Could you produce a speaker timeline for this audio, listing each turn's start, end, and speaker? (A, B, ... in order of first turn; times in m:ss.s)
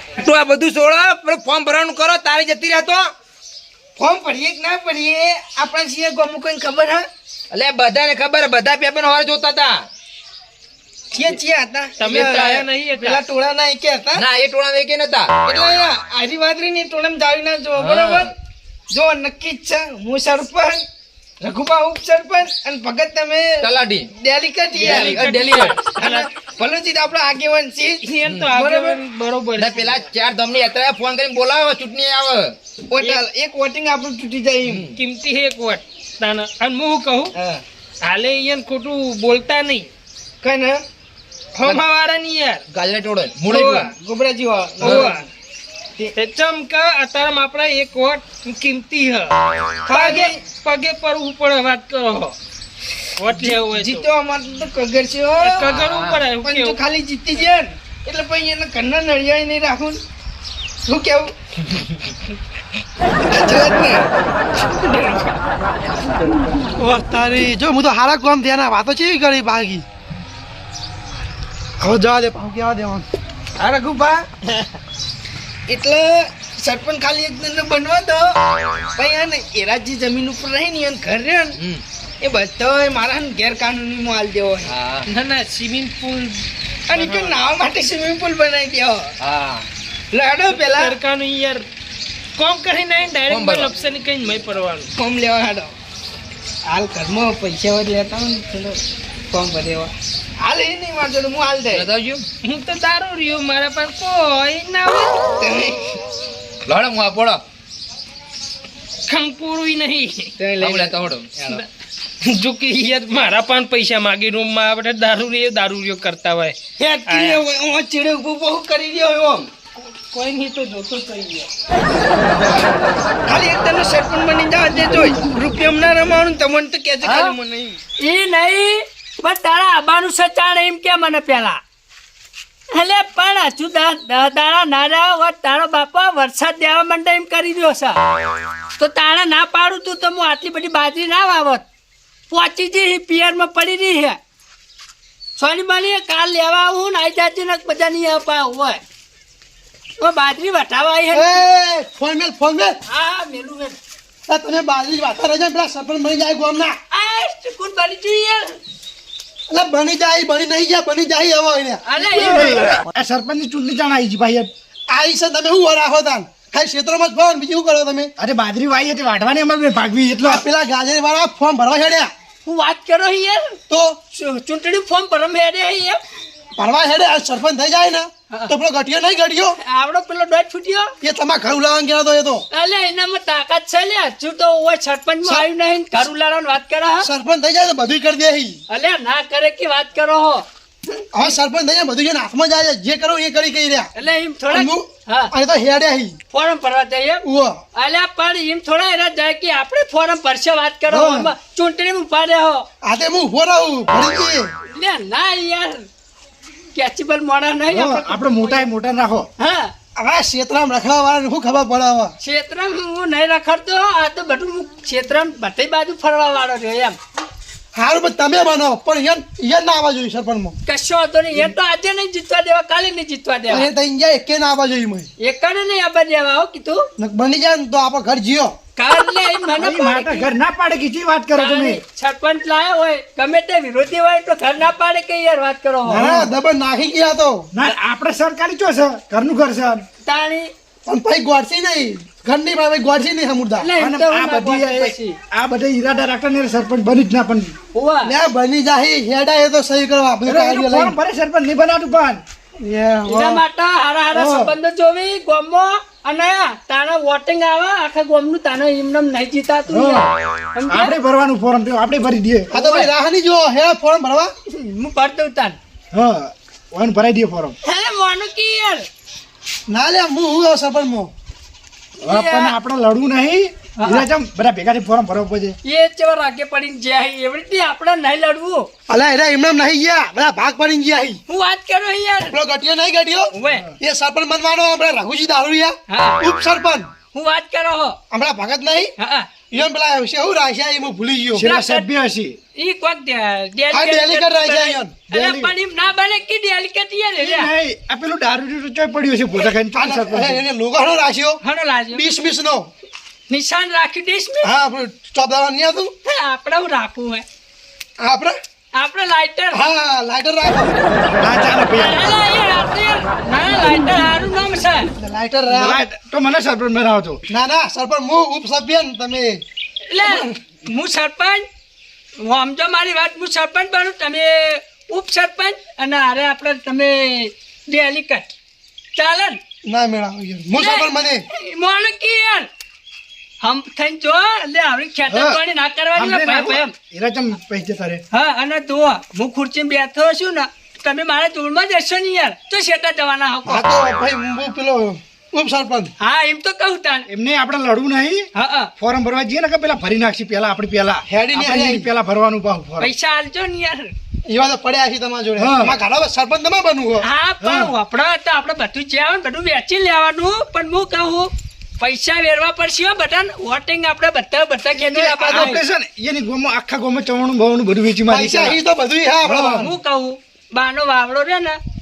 0:00.2-0:03.1 A
0:04.0-0:07.0 B
0:07.5-0:09.8 A
0:11.1-0:14.2 B
0:12.0-0:13.2 C
0:12.1-0:12.6 A
0:14.1-0:15.3 A
0:15.4-0:18.3 B
0:17.8-0:18.3 A
0:18.9-0:20.8 B
0:21.4-0:23.6 B
0:23.6-0:24.1 A
0:24.2-0:29.0 B
0:24.7-0:26.3 C
0:24.8-0:25.8 A
0:28.0-0:30.1 C
0:28.2-0:28.5 A
0:29.6-0:32.6 A
0:32.9-0:34.8 B
0:34.6-0:35.0 A
0:34.9-0:37.3 C
0:37.4-0:37.6 B
0:38.0-0:39.9 C
0:40.4-0:40.8 B
0:41.6-0:42.6 C
0:42.7-0:43.9 A
0:43.5-0:43.9 C
0:43.5-0:45.2 B
0:44.8-0:45.1 A
0:44.8-0:45.3 C
0:46.2-0:49.4 C
0:49.9-0:50.4 B
0:49.9-0:52.3 C
0:53.2-0:54.1 C
0:53.3-0:55.6 B
0:55.4-0:56.8 C
0:55.6-0:56.3 A
0:56.4-1:00.0 B
1:00.8-1:01.3 B
1:03.3-1:04.1 B
1:06.8-1:09.8 D
1:11.8-1:13.1 D
1:13.6-1:14.3 B
1:15.7-1:21.6 B
1:21.6-1:21.8 A
1:22.2-1:24.7 B
1:24.6-1:25.1 A
1:25.1-1:27.4 C
1:26.9-1:29.0 B
1:29.2-1:29.7 A
1:30.1-1:31.0 B
1:30.5-1:31.7 C
1:32.4-1:34.9 C
1:33.3-1:33.7 A
1:35.0-1:35.7 B
1:36.7-1:41.9 B
1:41.7-1:42.2 A
1:42.4-1:45.2 C
1:45.4-1:45.8 B
1:46.7-1:47.4 A
1:49.1-1:50.3 C
1:50.4-1:51.0 B
1:50.6-1:51.6 A
1:52.2-1:57.4 C
1:56.8-1:59.5 B
1:59.8-2:01.5 C
2:03.2-2:07.8 B
2:07.0-2:07.3 E
2:08.0-2:11.6 E
2:12.7-2:18.0 E
2:18.8-2:21.6 E
2:22.3-2:24.2 E
2:25.4-2:28.8 E
2:30.0-2:31.4 E
2:31.1-2:32.8 D
2:32.9-2:33.8 E
2:34.3-2:36.7 D
2:36.9-2:38.6 E
2:39.5-2:42.3 D
2:41.9-2:42.7 E
2:42.2-2:44.5 F
2:44.9-2:48.1 D
2:48.2-2:50.4 F
2:50.2-2:52.1 D
2:52.4-2:53.6 E
2:53.7-2:54.0 D
2:54.1-2:56.0 E
2:56.6-2:59.6 D
2:59.6-3:00.9 E
3:01.0-3:02.4 D
3:02.5-3:07.1 E
3:07.0-3:08.6 D
3:08.7-3:10.4 E
3:11.1-3:13.9 D
3:14.0-3:15.3 E
3:14.5-3:16.2 D
3:16.3-3:17.2 E
3:17.2-3:17.6 D
3:17.7-3:22.7 E
3:21.0-3:21.3 D
3:22.8-3:24.5 D
3:24.7-3:25.8 E
3:26.7-3:28.7 E
3:27.7-3:29.3 F
3:29.4-3:29.7 E
3:30.0-3:32.1 D
3:32.2-3:37.0 E
3:37.7-3:40.6 D
3:40.7-3:43.7 E
3:43.5-3:45.1 D
3:45.2-3:46.8 E
3:47.0-3:48.5 D
3:48.8-3:50.3 E
3:49.6-3:51.8 F
3:51.4-3:56.1 E
3:55.8-3:56.3 F
3:55.9-3:57.4 D
3:57.5-3:59.8 F
4:00.0-4:00.5 E
4:00.8-4:03.7 D
4:03.6-4:05.2 E
4:03.8-4:07.5 F
4:07.7-4:08.2 E
4:08.1-4:11.0 D
4:10.2-4:12.2 F
4:12.6-4:13.4 D
4:13.1-4:20.9 E
4:14.1-4:14.5 F
4:19.7-4:20.1 F
4:20.7-4:22.5 F
4:22.5-4:24.3 D
4:22.5-4:22.9 E
4:24.5-4:25.6 E
4:25.9-4:27.6 F
4:27.6-4:28.8 E
4:29.7-4:31.1 D
4:32.0-4:35.6 F
4:32.0-4:32.6 E
4:33.8-4:34.1 E
4:35.6-4:38.7 E
4:38.9-4:41.2 D
4:41.3-4:42.4 E
4:42.3-4:46.9 D
4:43.3-4:43.7 E
4:45.9-4:46.3 E
4:47.1-4:48.0 E
4:48.1-4:48.9 D
4:49.0-4:49.3 E
4:49.5-4:51.5 D
4:51.4-4:52.4 F
4:51.4-4:51.9 E
4:52.6-4:57.5 E
4:53.7-4:55.0 D
4:55.1-4:55.5 F
4:57.2-5:00.4 F
4:59.7-5:01.4 D
5:01.4-5:02.0 E
5:01.9-5:02.7 D
5:03.3-5:04.5 E
5:04.4-5:05.9 D
5:06.0-5:07.2 E
5:08.0-5:08.4 D
5:08.7-5:09.6 E
5:09.5-5:10.7 D
5:11.2-5:12.1 F
5:11.5-5:14.9 E
5:15.0-5:15.8 D
5:15.5-5:17.2 F
5:17.3-5:19.4 D
5:19.9-5:21.4 E
5:22.2-5:28.3 E
5:29.0-5:29.4 E
5:29.7-5:31.2 D
5:30.6-5:32.5 E
5:33.4-5:36.7 E
5:35.1-5:35.4 F
5:35.9-5:38.0 F
5:38.1-5:43.7 E
5:43.5-5:45.9 D
5:46.0-5:47.1 E
5:47.1-5:48.3 F
5:48.3-5:48.7 E
5:48.8-5:52.9 F
5:51.1-5:51.9 D
5:52.8-5:53.9 E
5:54.3-5:57.0 D
5:55.4-5:55.8 F
5:57.0-6:05.6 E
5:57.4-5:57.7 F
6:04.9-6:08.6 F
6:08.1-6:09.7 D
6:09.2-6:09.7 F
6:09.6-6:11.6 E